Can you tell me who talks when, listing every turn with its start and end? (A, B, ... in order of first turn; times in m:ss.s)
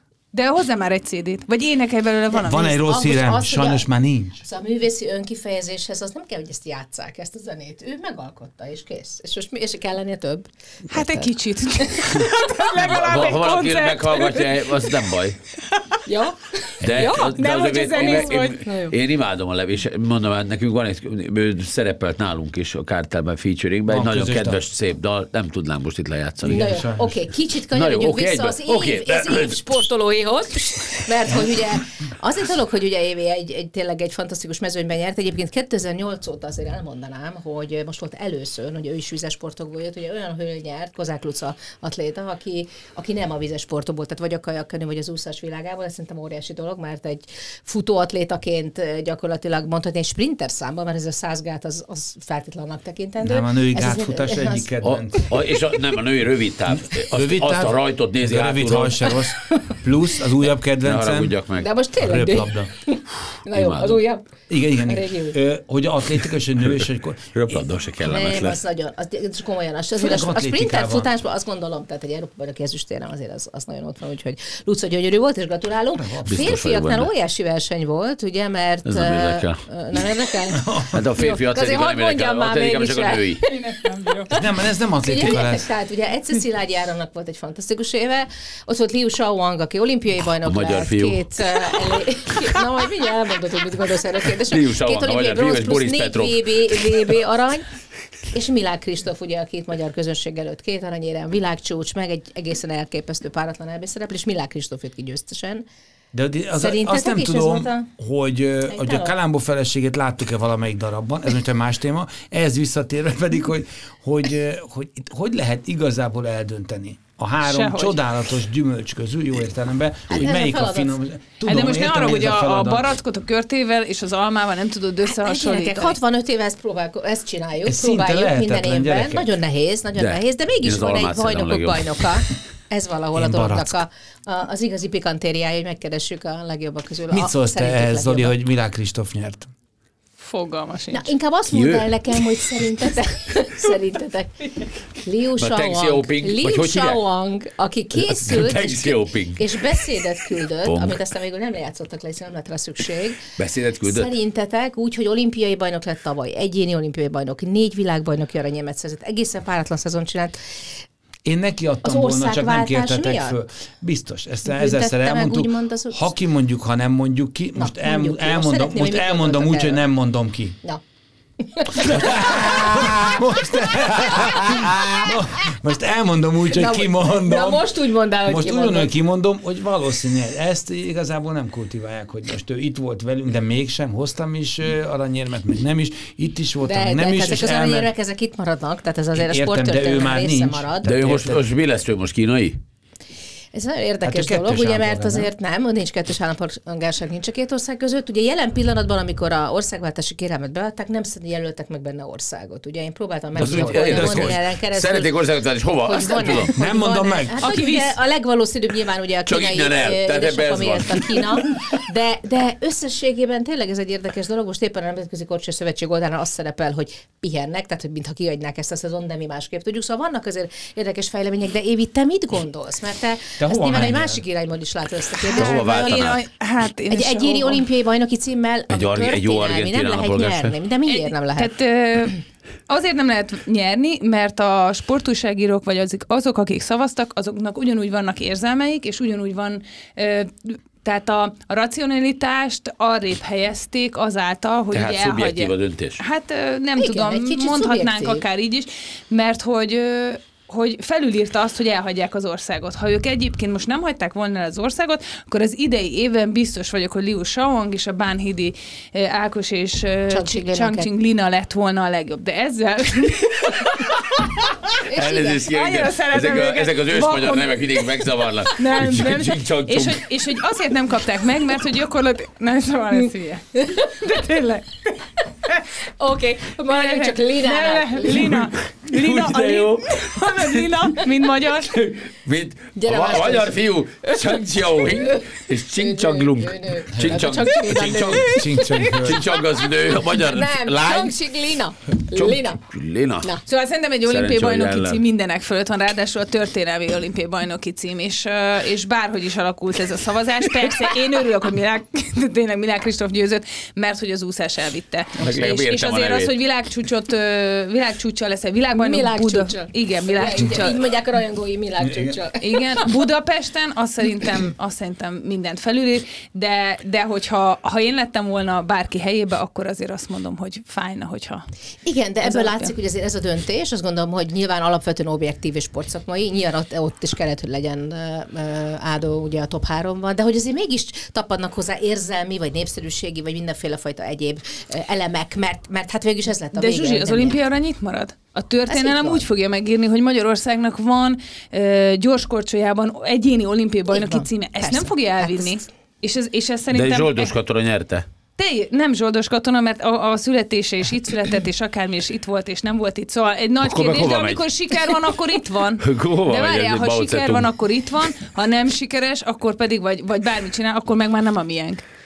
0:00.3-0:02.8 A
0:02.4-0:04.4 B
0:02.4-0:03.9 C
0:04.4-0:12.3 C
0:10.9-0:14.9 A
0:12.7-0:15.4 D
0:15.6-0:16.0 A
0:16.1-0:17.3 C
0:16.8-0:26.7 D
0:16.9-0:18.7 A
0:18.0-0:19.0 C
0:23.9-0:24.6 B
0:26.4-0:27.2 B
0:26.5-0:55.8 C
0:27.7-0:29.7 D
0:53.2-0:55.4 B
0:54.8-0:59.2 D
0:56.8-1:01.4 B
1:00.8-1:01.7 D
1:01.6-1:05.4 C
1:02.0-1:02.7 B
1:03.5-1:04.0 D
1:04.5-1:07.6 B
1:06.7-1:08.6 D
1:08.0-1:24.4 C
1:10.0-1:11.1 B
1:16.0-1:16.6 B
1:16.3-1:17.1 D
1:18.9-1:19.6 D
1:20.5-1:21.0 B
1:20.9-1:23.5 D
1:23.7-1:24.2 A
1:24.3-1:25.7 B
1:25.0-1:37.7 C
1:30.4-1:31.3 D
1:34.4-1:37.1 D
1:38.3-1:45.6 C
1:46.1-2:02.9 B
1:46.6-1:47.9 C
1:48.7-1:49.2 C
1:57.4-1:58.0 A
2:00.1-2:01.0 C
2:01.4-2:06.0 A
2:05.1-2:18.4 C
2:07.7-2:09.3 B
2:10.0-2:11.9 D
2:13.2-2:13.8 B
2:17.1-2:19.5 B
2:20.2-2:21.1 A
2:20.9-2:33.3 C
2:21.5-2:21.9 D
2:25.4-2:27.0 D
2:27.9-2:29.8 D
2:30.6-2:31.0 D
2:33.4-2:34.1 D
2:33.8-2:40.4 C
2:41.2-2:50.6 B
2:41.8-2:43.4 C
2:44.4-2:46.1 C
2:47.6-2:49.8 C
2:51.4-2:55.2 C
2:51.8-2:57.7 B
2:56.5-2:58.9 C
2:58.2-3:07.9 B
3:06.6-3:11.0 C
3:09.2-3:11.4 B
3:10.8-3:12.6 D
3:13.5-3:25.1 C
3:14.0-3:15.3 B
3:23.4-3:24.4 B
3:23.4-3:26.5 D
3:25.8-3:46.2 C
3:26.5-3:27.5 B
3:27.4-3:28.0 A
3:29.3-3:31.2 D
3:43.4-3:44.2 B
3:45.3-3:47.6 A
3:45.3-3:46.2 D
3:46.9-3:51.5 C
3:48.7-3:50.6 D
3:50.9-4:24.5 A
4:04.7-4:06.0 D
4:06.8-4:08.2 C
4:20.1-4:20.9 C
4:24.8-4:25.4 C
4:24.8-4:30.0 D
4:25.4-4:27.8 A
4:28.5-4:34.9 A
4:33.6-4:33.9 C
4:36.0-4:38.5 C
4:36.7-4:41.8 A
4:38.9-4:40.5 D
4:41.6-4:51.2 D
4:42.8-4:52.6 C
4:46.9-4:49.2 B
4:52.1-4:53.3 D
4:53.5-5:10.9 A
4:54.1-4:55.0 D
5:05.2-5:06.3 D
5:08.8-5:12.8 C
5:11.8-5:12.2 B
5:12.4-5:21.4 A
5:21.8-5:37.4 C
5:22.2-5:22.7 A
5:36.5-5:47.4 A
5:38.7-5:39.2 C
5:43.9-5:45.6 C
5:46.7-5:48.0 D
5:48.4-6:01.8 A
5:53.6-5:54.4 D
5:55.8-5:57.5 D